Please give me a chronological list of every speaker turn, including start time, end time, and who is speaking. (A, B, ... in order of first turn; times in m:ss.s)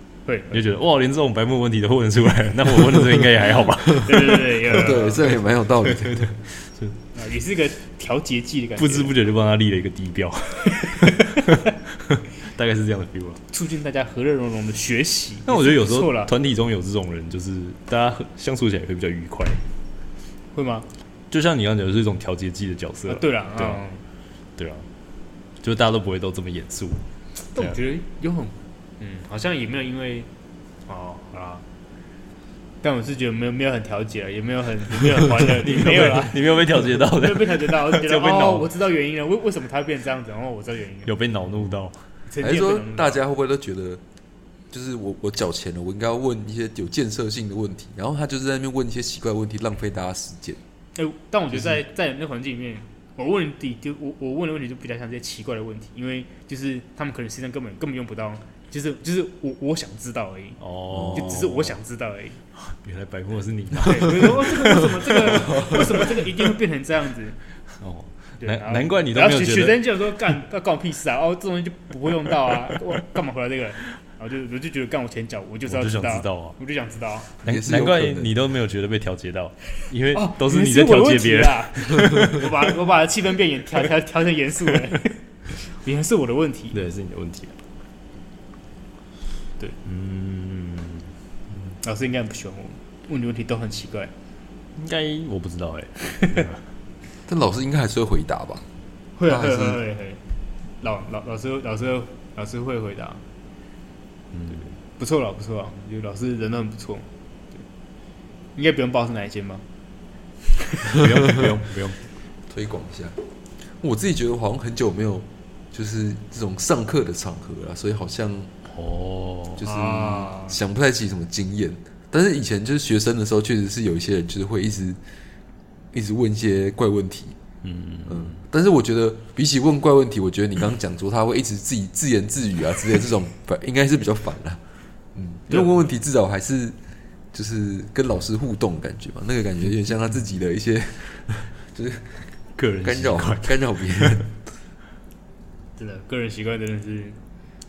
0:00.2-0:00.6 A
0:00.5-0:04.4 B
0:03.9-0:05.3 A
0:04.6-0:06.4 C
0:05.8-0:07.0 B
0:07.1-0:09.1 A
0:08.8-0:13.4 B
0:13.5-0:16.3 A
0:15.5-0:19.6 B
0:20.5-0:20.9 A
0:21.3-0:23.8 B
0:23.1-0:24.0 A
0:24.6-0:24.8 B
0:25.6-0:27.0 B
0:27.5-0:30.3 A
0:30.9-0:31.6 A
0:32.8-0:41.1 A
0:35.4-0:38.7 B
0:41.0-0:42.0 B
0:42.3-0:43.2 A
0:42.4-0:44.0 C
0:44.7-0:50.6 C
0:50.9-1:02.4 A
1:00.6-1:01.8 B
1:02.5-1:06.3 B
1:03.8-1:07.4 A
1:07.8-1:10.3 B
1:08.4-1:17.3 A
1:15.7-1:16.6 B
1:17.4-1:22.5 B
1:17.4-1:18.4 C
1:20.1-1:26.8 A
1:26.7-1:27.5 B
1:29.8-1:31.1 B
1:31.8-1:34.1 A
1:34.8-1:36.6 B
1:37.3-1:38.6 C
1:39.2-1:40.2 A
1:39.2-1:39.8 C
1:40.8-1:43.2 A
1:44.3-1:44.6 B
1:44.5-1:47.1 A
1:48.6-1:49.6 A
1:50.7-1:51.0 A
1:50.8-1:52.0 B
1:52.5-1:53.1 C
1:53.8-1:58.5 C
1:58.7-1:59.6 B
1:59.6-2:05.0 C
1:59.6-2:00.6 A
2:05.9-2:07.4 C
2:07.6-2:08.4 B
2:08.0-2:14.6 C
2:15.1-2:16.8 C
2:17.3-2:22.3 C
2:22.6-2:24.2 B
2:22.8-2:24.3 C
2:25.8-2:27.2 A